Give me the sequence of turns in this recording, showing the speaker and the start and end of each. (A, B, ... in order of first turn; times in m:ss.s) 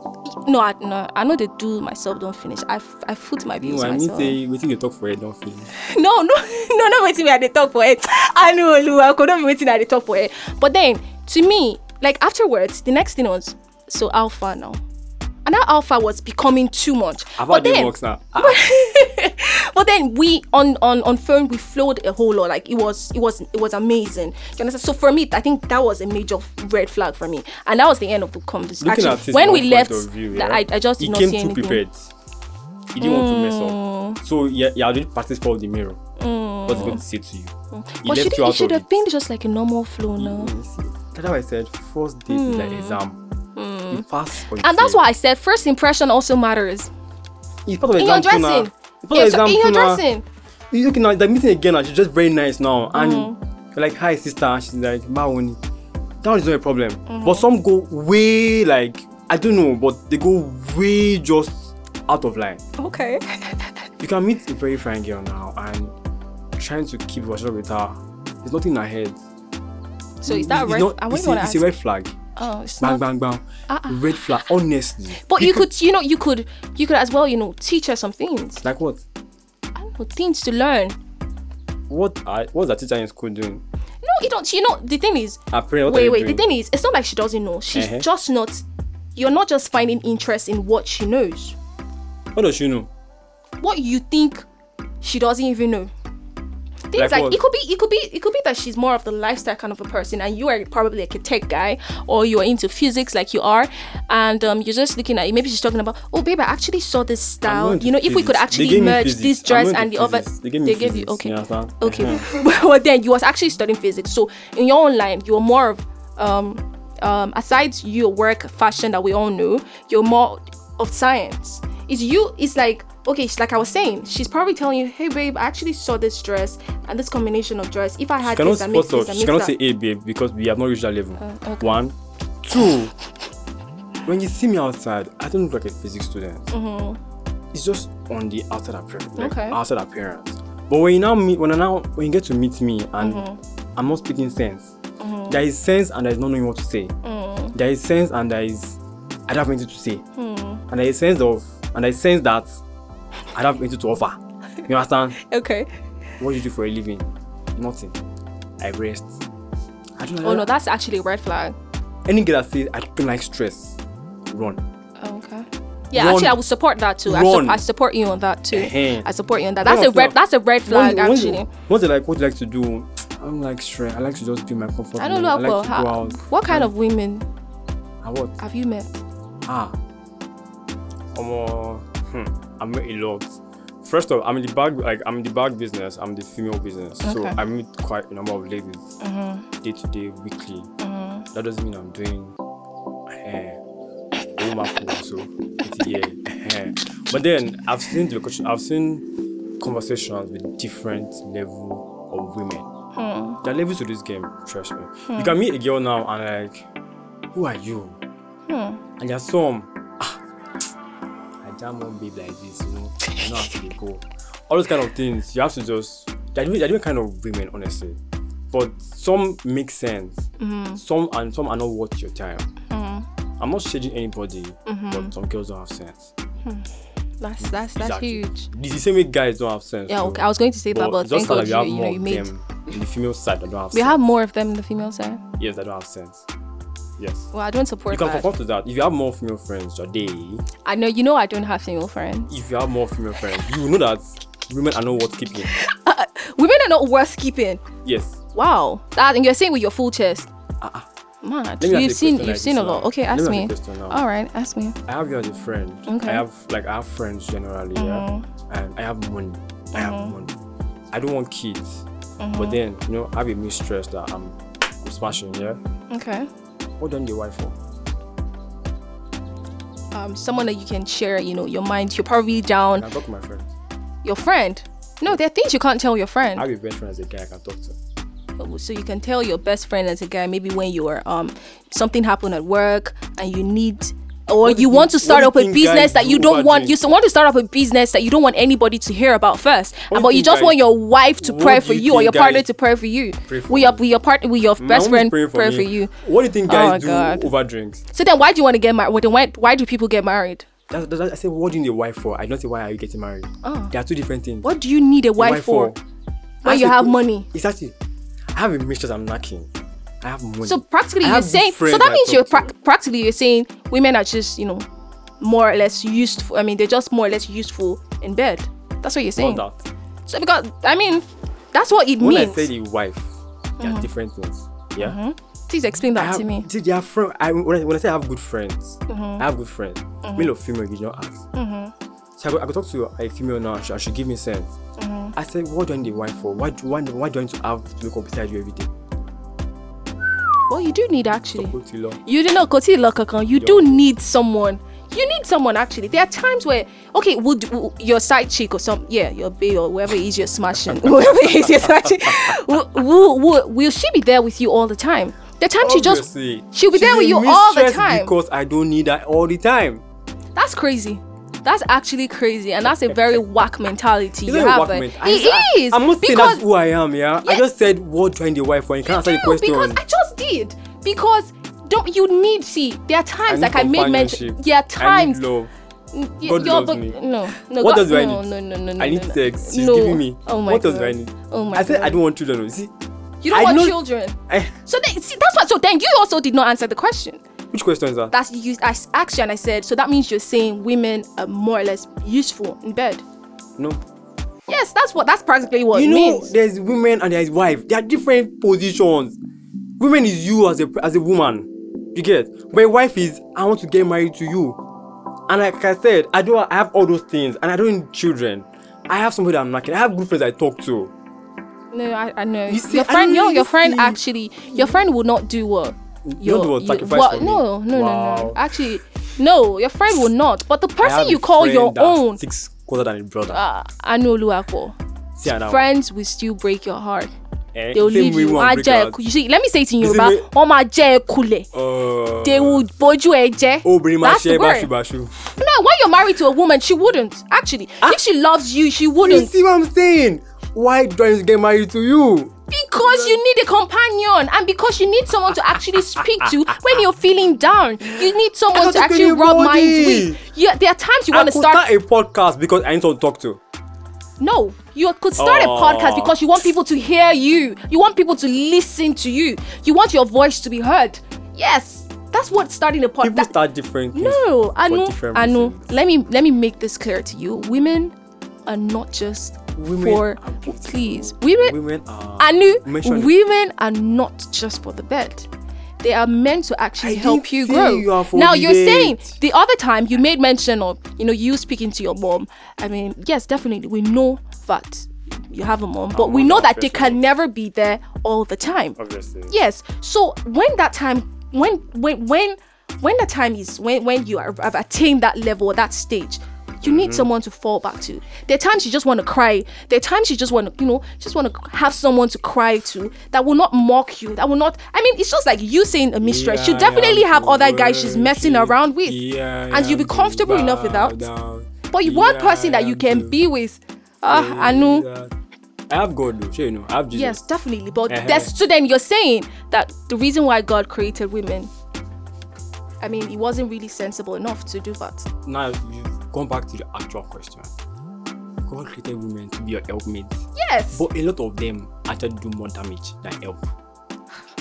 0:00.3-0:04.4 A
0:03.6-0:05.7 B
0:05.7-0:14.8 A
0:15.5-0:31.8 A
0:17.4-0:18.6 B
0:28.8-0:32.1 B
0:32.9-0:36.0 B
0:33.0-0:34.2 A
0:36.2-0:37.0 A
0:36.7-0:37.5 B
0:37.7-0:40.5 A
0:38.0-0:38.9 B
0:40.2-0:43.2 B
0:42.3-0:43.0 A
0:43.6-0:44.0 A
0:43.9-0:45.0 B
0:44.6-0:46.9 A
0:47.7-0:50.0 B
0:48.0-0:50.2 A
0:50.7-0:55.6 B
0:52.9-0:53.4 A
0:56.2-1:02.6 B
0:57.1-0:57.5 A
1:02.8-1:03.7 A
1:04.0-1:05.9 B
1:06.6-1:09.2 B
1:10.2-1:11.7 A
1:10.3-1:12.1 B
1:12.4-1:13.0 A
1:12.8-1:15.7 B
1:13.7-1:14.2 A
1:15.2-1:18.6 A
1:18.6-1:19.0 B
1:19.8-1:21.0 A
1:21.9-1:23.6 B
1:24.0-1:28.6 A
1:25.5-1:26.4 B
1:27.7-1:28.1 B
1:29.2-1:31.6 A
1:32.4-1:32.9 B
1:33.6-1:34.5 A
1:35.0-1:35.9 A
1:36.9-2:09.5 A
1:37.0-1:37.4 B
1:47.4-1:52.3 B
2:08.2-2:12.9 B
2:11.2-2:11.8 A
2:14.1-2:16.5 B
2:16.5-2:17.0 A
2:17.5-2:24.7 B
2:19.2-2:19.6 A
2:23.0-2:23.4 A
2:25.0-2:25.4 A
2:25.3-2:26.9 B
2:27.0-2:27.6 A
2:27.5-2:30.0 B
2:30.2-2:30.6 A
2:30.7-2:32.6 B
2:33.3-2:35.2 B
2:35.2-2:35.7 A
2:36.2-2:38.0 B
2:38.6-2:39.2 B
2:40.0-2:40.5 B
2:40.2-2:41.6 A
2:42.1-2:43.8 B
2:44.3-2:44.6 B
2:45.0-2:51.5 A
2:45.9-2:46.4 B
2:47.0-2:47.6 B
2:48.5-2:49.1 B
2:49.6-2:56.7 B
2:55.0-2:57.3 A
2:58.0-2:58.4 B
2:58.4-2:59.0 A
2:59.5-2:59.8 B
3:01.1-3:09.0 B
3:07.0-3:07.4 A
3:09.0-3:09.5 A
3:09.6-3:10.7 B
3:10.8-3:11.3 A
3:11.3-3:12.4 B
3:13.1-3:13.6 B
3:14.4-3:19.1 B
3:19.6-3:22.7 B
3:23.0-3:23.4 A
3:23.4-3:26.6 B
3:25.1-3:25.4 A
3:27.3-3:28.0 B
3:28.5-3:28.8 A
3:29.0-3:30.2 B
3:31.4-3:38.0 B
3:33.1-3:33.6 A
3:38.5-3:42.5 B
3:40.4-3:40.8 A
3:42.7-3:43.1 A
3:43.4-3:46.1 B
3:44.7-3:45.1 A
3:47.2-3:48.5 A
3:47.4-3:54.1 B
3:49.9-3:52.3 A
3:53.7-3:55.2 A
3:55.4-3:56.2 B
3:57.0-3:57.3 B
3:57.3-3:58.3 A
3:57.9-4:00.4 B
4:00.6-4:02.3 A
4:02.3-4:05.5 B
4:05.4-4:07.6 A
4:07.8-4:08.2 B
4:08.3-4:10.3 A
4:10.6-4:10.9 B
4:11.2-4:14.8 A
4:11.6-4:14.0 B
4:14.9-4:20.4 B
4:15.9-4:16.2 A
4:17.8-4:18.3 A
4:19.7-4:20.1 A
4:20.9-4:21.8 B
4:22.2-4:22.6 A
4:22.4-4:25.6 B
4:25.9-4:26.3 A
4:26.8-4:27.6 B
4:29.9-4:32.9 A
4:32.7-4:33.5 B
4:34.0-4:36.4 A
4:36.4-4:37.8 B
4:38.4-4:55.9 A
4:44.4-4:46.8 B
4:49.9-4:50.6 B
4:51.2-4:52.5 B
4:53.3-4:53.8 B
4:54.6-4:57.8 B
4:56.5-4:57.3 A
4:57.9-5:00.5 A
5:00.7-5:04.5 B
5:03.4-5:03.7 A
5:04.4-5:05.7 A
5:05.2-5:05.8 B
5:06.4-5:07.3 A
5:06.4-5:07.8 B
5:08.3-5:09.5 B
5:10.0-5:12.5 B
5:10.4-5:14.7 A
5:15.2-5:19.4 A
5:19.2-5:19.6 B
5:20.1-5:22.5 A
5:22.0-5:25.0 B
5:23.6-5:23.9 A
5:24.8-5:26.5 A
5:26.0-5:31.3 B
5:28.9-5:29.2 A
5:30.0-5:30.3 A
5:31.3-5:31.7 A
5:32.2-5:34.5 B
5:34.8-5:35.2 A
5:35.2-5:38.7 B
5:40.5-5:58.1 A
5:41.4-5:42.0 B
5:43.4-5:43.8 B
5:50.8-5:52.4 B
5:55.6-5:59.8 B
6:00.4-6:06.4 A
6:02.7-6:03.2 B
6:04.2-6:09.8 B
6:08.9-6:15.2 A
6:13.3-6:15.5 B
6:15.9-6:22.0 A
6:16.2-6:17.0 B
6:17.6-6:22.7 B
6:23.2-6:27.2 A
6:23.3-6:24.5 B
6:27.5-6:28.1 B
6:28.1-6:33.0 A
6:34.5-6:36.3 A
6:35.7-6:39.2 B
6:39.8-6:44.6 B
6:45.3-6:50.9 B
6:51.7-7:02.2 A
6:52.5-6:54.0 B
6:54.5-6:54.8 B
6:56.1-6:58.4 B
7:00.8-7:03.4 B
7:03.3-7:04.8 A
7:05.2-7:05.7 B
7:05.3-7:07.1 A
7:07.6-7:09.0 B
7:07.7-7:11.5 A
7:09.8-7:10.3 B
7:11.5-7:12.6 B
7:12.2-7:14.7 A
7:13.6-7:15.3 B
7:15.4-7:19.3 A
7:19.0-7:23.2 B
7:22.5-7:31.6 A
7:25.6-7:26.5 B
7:28.0-7:30.2 B
7:31.1-7:33.4 B
7:34.2-7:43.3 A
7:35.2-7:36.2 B
7:43.0-7:45.7 B
7:43.9-7:47.9 A
7:48.5-7:51.6 A
7:49.6-7:53.2 B
7:52.2-7:55.3 A
7:55.8-8:08.8 A
7:56.8-7:59.1 B
8:05.9-8:07.0 B
8:08.8-8:09.3 B
8:09.3-8:31.0 A
8:16.6-8:17.1 B
8:26.0-8:33.2 B
8:31.7-8:34.9 A
8:34.1-8:35.1 B
8:35.7-8:37.2 B
8:36.9-8:41.5 A
8:37.9-8:38.3 B
8:42.8-8:45.1 A
8:45.2-8:47.5 B
8:48.4-8:50.2 B
8:50.4-8:50.8 A
8:50.7-8:53.5 B